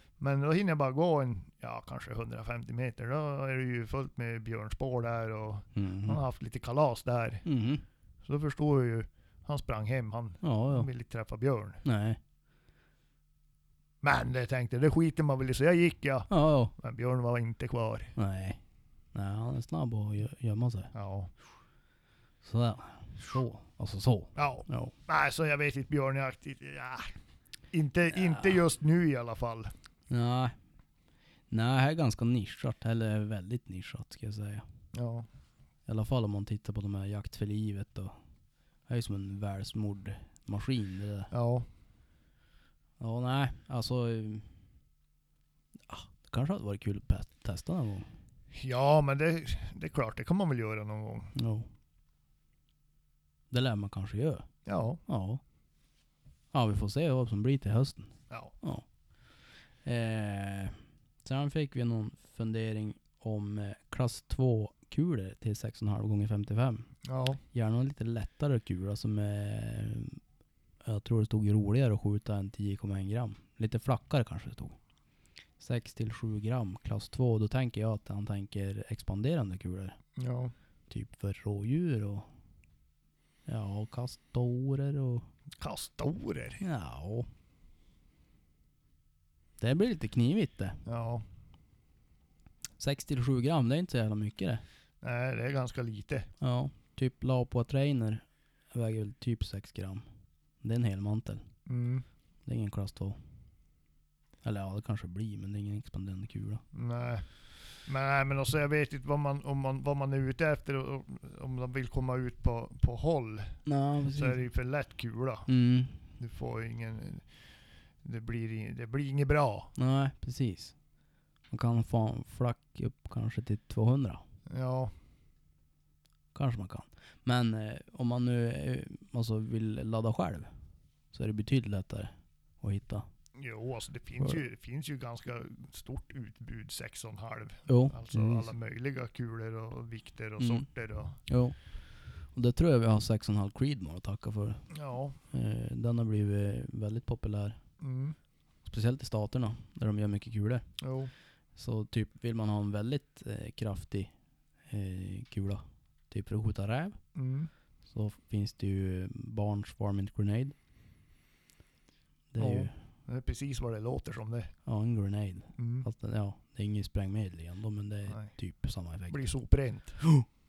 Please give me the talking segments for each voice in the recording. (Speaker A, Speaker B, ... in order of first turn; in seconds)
Speaker A: 0.2-7.5, 8.2-11.8, 14.0-18.1, 20.9-21.3, 24.4-27.1, 27.7-29.7, 34.9-35.3, 41.3-41.7, 48.5-51.3, 54.7-55.0, 67.0-67.4, 80.2-80.5, 85.6-86.6, 90.9-91.2, 95.0-96.3, 101.7-102.0, 106.7-107.3, 107.9-115.5, 116.2-117.3, 118.0-119.7, 124.5-124.9, 133.4-141.2, 144.7-145.2, 147.8-148.2, 150.8-151.1, 157.2-157.5, 162.4-164.5, 165.6-165.9, 169.1-170.0
Speaker B: 5.8-6.2, 7.5-7.8, 10.4-10.9, 11.8-12.2, 16.3-16.7, 18.2-18.6, 19.1-20.9, 22.4-24.9, 28.1-28.6, 30.1-30.5, 31.5-34.6, 35.9-38.1, 38.9-41.3, 43.0-44.5, 45.9-48.1, 51.4-51.7, 53.5-54.5, 55.1-55.4, 56.5-58.9, 59.9-66.9, 67.5-70.2, 70.8-74.8, 75.6-80.0, 80.9-82.3, 83.5-85.3, 86.6-87.3, 89.6-90.8, 92.8-94.6, 96.4-100.0, 100.6-101.4, 102.5-103.2, 104.4-106.6, 113.7-114.4, 115.5-116.0, 119.8-120.8, 121.5-124.2, 126.3-130.5, 131.1-133.1, 137.7-138.5, 140.4-140.7, 141.3-141.6, 142.3-144.6, 145.3-147.6, 148.7-150.7, 151.6-154.1, 154.7-157.0, 157.9-160.6, 162.3-162.7, 164.7-169.3